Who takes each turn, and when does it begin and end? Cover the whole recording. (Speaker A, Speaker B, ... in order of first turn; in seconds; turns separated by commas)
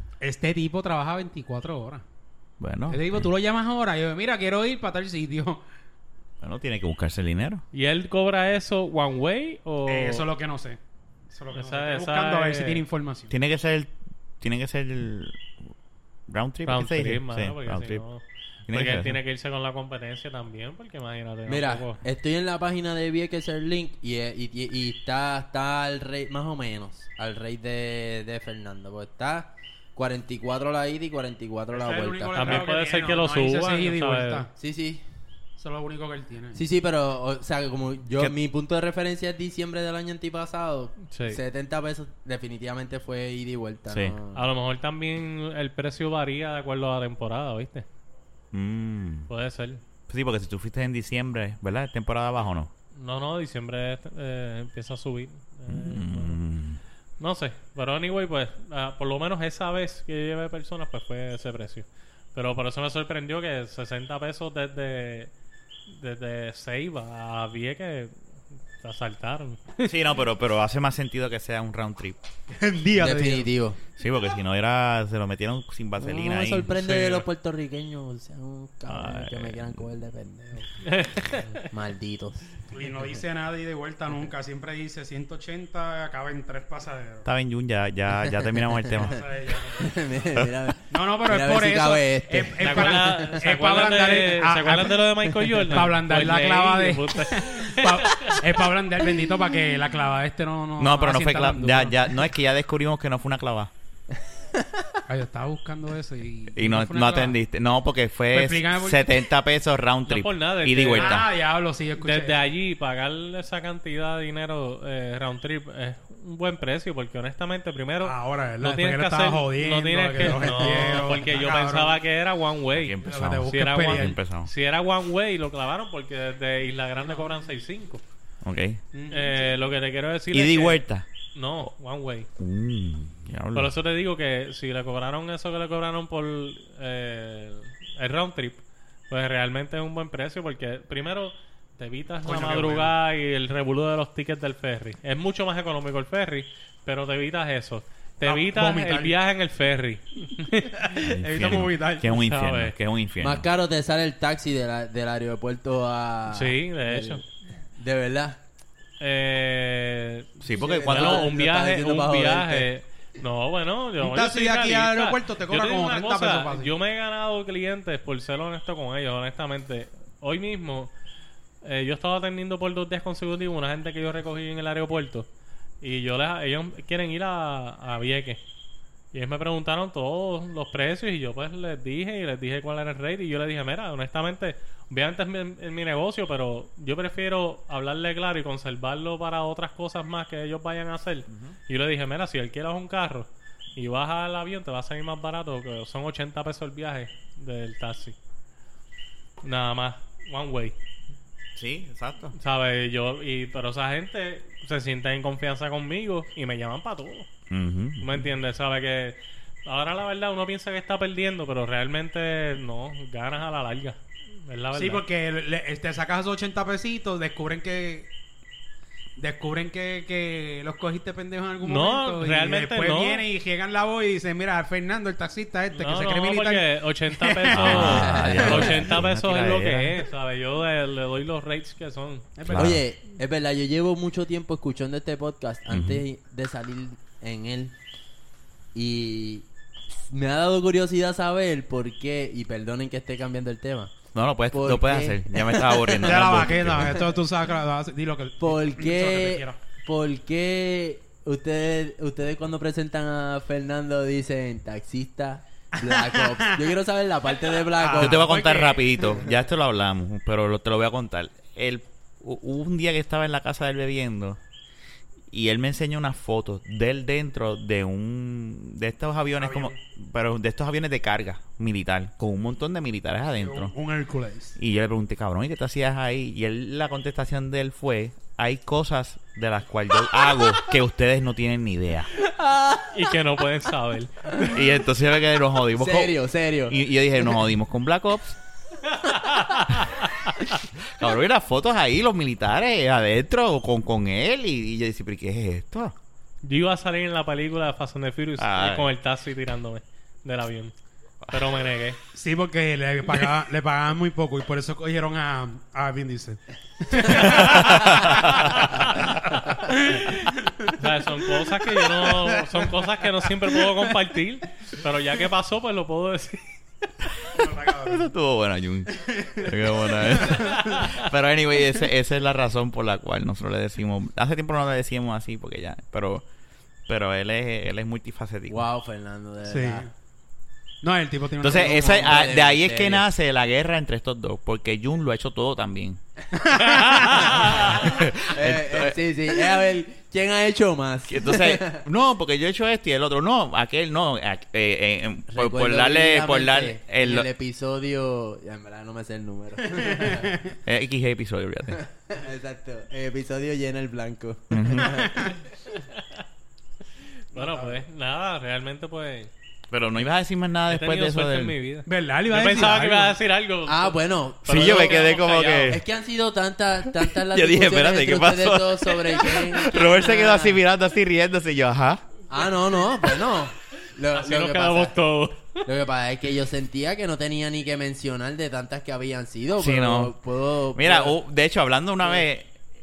Speaker A: 0.2-2.0, Speaker B: 2.6-3.3, Speaker A: 2.9-5.6, Speaker B: 6.4-7.6, Speaker C: 7.7-10.3, Speaker A: 9.9-10.8, Speaker A: 11.3-13.3, Speaker C: 11.5-12.8, Speaker B: 13.3-15.4, Speaker B: 16.3-18.0, Speaker C: 16.6-22.0, Speaker B: 18.7-19.2, Speaker D: 21.5-32.6, Speaker A: 31.7-34.5, Speaker C: 32.4-34.5, Speaker D: 34.6-35.0, Speaker A: 35.6-36.6, Speaker D: 36.5-44.4, Speaker C: 41.1-41.4, Speaker B: 43.9-44.2, Speaker C: 44.3-47.9, Speaker B: 48.5-49.3, Speaker C: 49.3-49.8, Speaker B: 50.1-52.7, Speaker C: 53.0-56.4, Speaker B: 55.7-56.8, Speaker C: 57.2-65.3, Speaker C: 65.9-68.2, Speaker C: 68.8-69.9, Speaker B: 69.8-72.2, Speaker A: 72.5-73.5, Speaker D: 73.0-73.8, Speaker B: 74.0-77.2, Speaker D: 76.0-80.7, Speaker B: 78.9-79.8, Speaker C: 80.8-81.7, Speaker D: 81.6-82.5, Speaker A: 82.7-87.3, Speaker B: 87.2-89.2, Speaker A: 89.0-90.0, Speaker D: 89.8-93.4, Speaker A: 90.9-95.0, Speaker C: 92.6-98.6, Speaker A: 95.6-102.2, Speaker B: 100.8-103.7, Speaker A: 105.1-107.4, Speaker B: 106.5-111.3, Speaker A: 108.3-109.1, Speaker C: 110.1-111.3, Speaker A: 111.0-112.5, Speaker C: 112.0-128.0, Speaker A: 118.0-122.0, Speaker B: 122.7-124.5, Speaker A: 123.0-124.2, Speaker B: 128.4-128.8, Speaker A: 128.9-129.5, Speaker C: 129.1-130.8, Speaker B: 130.3-131.1, Speaker C: 131.3-132.3, Speaker B: 132.4-133.7, Speaker C: 133.5-152.8, Speaker A: 142.2-142.9, Speaker A: 148.2-149.2, Speaker A: 150.4-152.1, Speaker B: 151.0-153.5, Speaker D: 153.2-157.2, Speaker C: 156.3-157.2, Speaker D: 157.8-158.4, Speaker C: 159.0-170.9, Speaker B: 160.4-161.3, Speaker D: 160.5-162.7, Speaker A: 164.0-166.7, Speaker C: 171.6-175.3, Speaker C: 175.8-178.4, Speaker C: 179.1-198.2, Speaker B: 191.3-191.6, Speaker C: 199.4-200.8, Speaker B: 201.6-202.3, Speaker C: 202.4-207.3, Speaker B: 207.5-208.2, Speaker C: 208.0-215.1, Speaker A: 214.7-218.1, Speaker A: 219.2-228.4, Speaker C: 221.6-223.3, Speaker C: 225.8-232.3, Speaker B: 227.5-230.0, Speaker D: 227.7-228.9, Speaker A: 232.4-232.7, Speaker B: 232.5-232.8, Speaker D: 232.5-237.8, Speaker B: 235.7-236.0, Speaker D: 238.7-239.4, Speaker D: 240.1-243.9, Speaker B: 244.1-247.0, Speaker D: 244.5-247.1, Speaker A: 246.0-249.6, Speaker D: 248.4-258.4, Speaker A: 255.8-256.6, Speaker A: 257.8-259.2, Speaker B: 258.0-264.4, Speaker B: 265.3-273.8, Speaker A: 269.4-269.8, Speaker A: 273.4-274.6, Speaker B: 274.6-282.1, Speaker D: 282.2-282.9, Speaker C: 282.9-284.1, Speaker B: 284.5-288.4, Speaker D: 285.8-286.8, Speaker C: 289.3-290.0, Speaker B: 290.9-295.9, Speaker C: 296.4-300.7, Speaker B: 298.4-298.9, Speaker C: 301.3-302.0, Speaker A: 302.1-310.7, Speaker B: 307.1-308.8, Speaker C: 310.8-316.4, Speaker A: 311.6-312.7, Speaker A: 313.5-313.9, Speaker A: 317.3-318.1, Speaker B: 317.6-326.2, Speaker A: 318.9-320.9, Speaker B: 326.9-328.7, Speaker D: 328.5-329.9, Speaker A: 329.4-329.9, Speaker A: 330.8-332.2, Speaker B: 331.4-336.0, Speaker D: 331.6-333.1, Speaker A: 336.3-337.3, Speaker B: 337.2-339.0, Speaker D: 337.3-341.9, Speaker B: 341.1-347.3, Speaker D: 345.3-350.4, Speaker A: 349.7-350.6, Speaker B: 350.6-351.8, Speaker D: 351.8-355.4, Speaker B: 354.5-354.9, Speaker A: 354.8-355.4, Speaker C: 357.3-359.3, Speaker A: 357.3-357.8, Speaker B: 359.7-361.6, Speaker C: 360.7-365.8, Speaker A: 361.9-363.2, Speaker D: 363.7-370.6, Speaker B: 364.5-365.8, Speaker B: 367.0-372.0, Speaker D: 372.3-375.0, Speaker C: 374.1-375.6, Speaker D: 375.6-381.2, Speaker B: 379.6-380.1, Speaker B: 380.8-382.5